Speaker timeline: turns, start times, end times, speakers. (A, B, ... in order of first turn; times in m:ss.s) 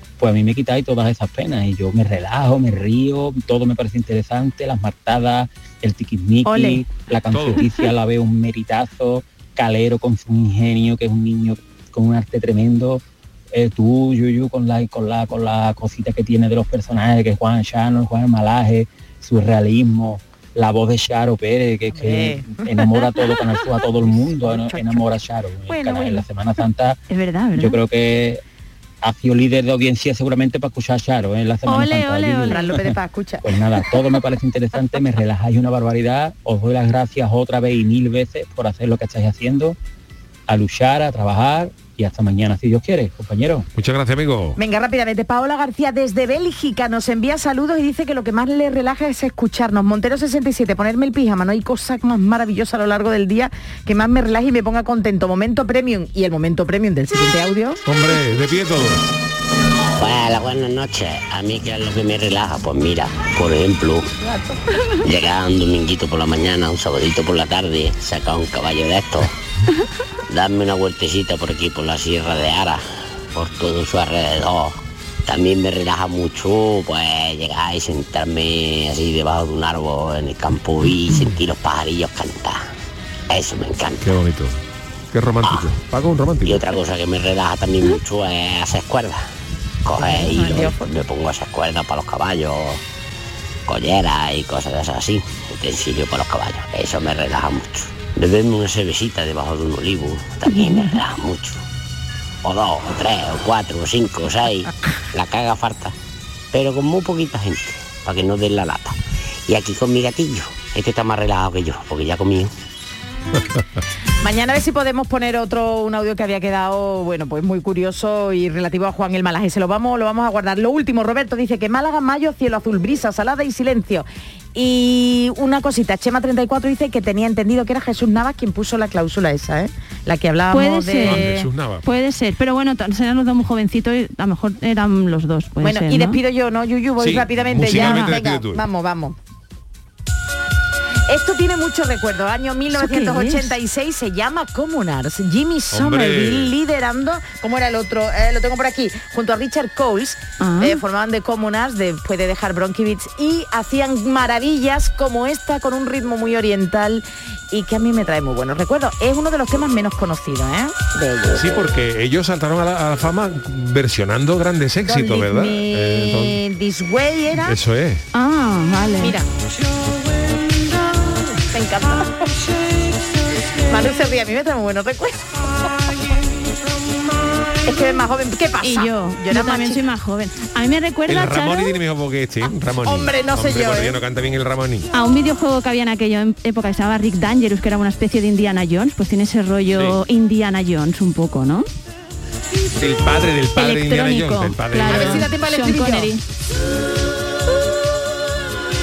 0:00.2-0:27.0 A
0:06.4-0:06.8 B
0:07.3-0:07.7 C
0:21.9-0:25.1 D
0:25.7-0:26.3 D
0:27.1-0:27.8 B
0:27.6-0:28.4 A
0:29.0-0:39.8 A
0:31.6-0:32.7 B
0:32.4-0:33.6 D
0:40.5-0:43.7 A
0:43.7-0:44.6 C
0:44.6-0:57.8 D
0:57.8-0:59.0 C
1:00.0-1:04.1 E
1:04.2-1:04.6 D
1:05.0-1:09.3 E
1:10.3-1:14.8 E
1:15.3-1:22.7 E
1:23.3-1:24.1 E
1:24.0-1:24.6 C
1:25.1-1:26.7 C
1:25.4-1:25.7 E
1:26.4-1:29.3 E
1:29.8-1:32.8 E
1:30.0-1:30.9 D
1:33.6-1:41.6 E
1:40.5-1:41.0 B
1:42.4-1:45.9 E
1:46.5-1:52.5 E
1:54.2-2:11.5 D
2:10.5-2:11.3 B
2:11.0-2:11.8 C
2:11.8-2:16.2 B
2:15.6-2:19.2 D
2:17.0-2:18.6 C
2:17.6-2:18.2 B
2:21.1-2:41.6 D
2:22.7-2:23.5 B
2:25.7-2:26.6 C
2:30.4-2:30.8 B
2:41.3-2:46.4 C
2:44.8-2:47.6 D
2:47.3-2:48.0 C
2:48.1-2:49.2 B
2:49.0-2:49.3 D
2:51.4-2:52.5 D
2:53.7-2:55.7 D
2:57.6-2:59.8 D
2:58.6-3:01.8 B
3:01.1-3:04.9 C
3:02.8-3:04.0 D
3:04.9-3:11.7 B
3:12.8-3:15.3 C
3:13.6-3:16.2 B
3:14.8-3:16.1 D